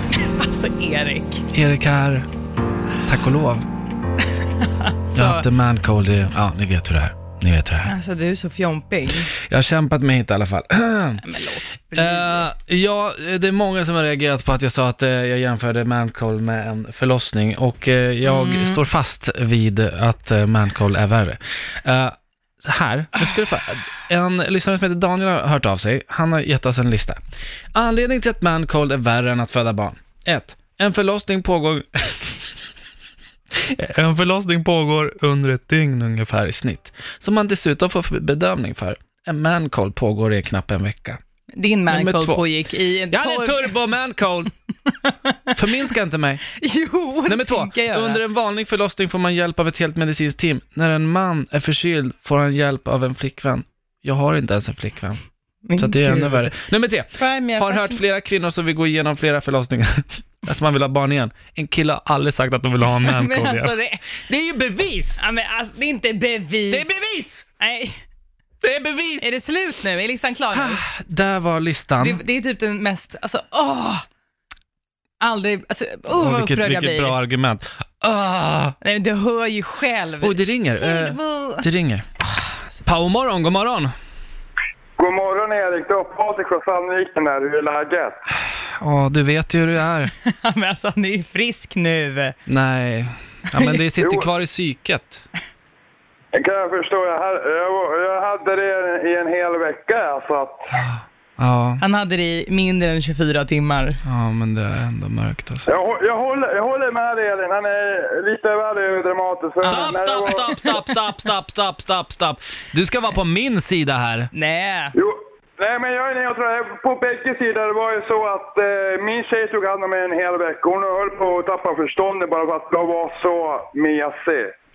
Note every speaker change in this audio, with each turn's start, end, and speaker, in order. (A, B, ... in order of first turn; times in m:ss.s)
0:00.1-0:01.4 A
0:01.5-0:02.2 B
0:03.0-0:03.6 B
0:04.6-0:05.4 A
0:05.1-0:07.9 B
0:07.8-0:09.3 A
0:09.3-0:11.2 B
0:11.2-0:12.5 A
0:11.9-0:27.2 B
0:18.2-0:18.8 A
0:27.7-0:32.4 B
0:33.5-0:41.2 B
0:41.5-0:43.8 A
0:41.9-0:42.4 B
0:43.1-0:44.5 B
0:45.1-0:45.5 A
0:45.5-0:46.4 B
0:46.5-0:48.2 A
0:47.2-0:55.2 B
0:55.6-0:56.6 A
0:55.8-1:05.2 B
0:57.2-0:58.0 A
1:02.9-1:04.1 A
1:05.2-1:07.0 A
1:06.7-1:07.4 B
1:07.6-1:08.0 A
1:08.6-1:09.3 B
1:09.2-1:10.8 A
1:10.5-1:12.2 B
1:12.0-1:14.0 A
1:15.2-1:17.2 A
1:16.1-1:18.8 B
1:18.8-1:21.6 A
1:20.2-1:22.0 B
1:22.8-1:23.9 B
1:25.0-1:28.2 C
1:28.8-1:30.1 B
1:30.1-1:32.3 A
1:32.5-1:35.2 B
1:33.5-1:33.8 A
1:34.0-1:34.3 C
1:36.3-1:40.7 C
1:40.7-1:41.8 B
1:41.8-1:44.0 A
1:44.0-1:45.7 B
1:45.7-1:50.5 C
1:49.6-1:50.0 A
1:49.6-1:54.3 B
1:50.7-1:50.9 A
1:54.3-1:54.9 A
1:55.0-2:04.5 C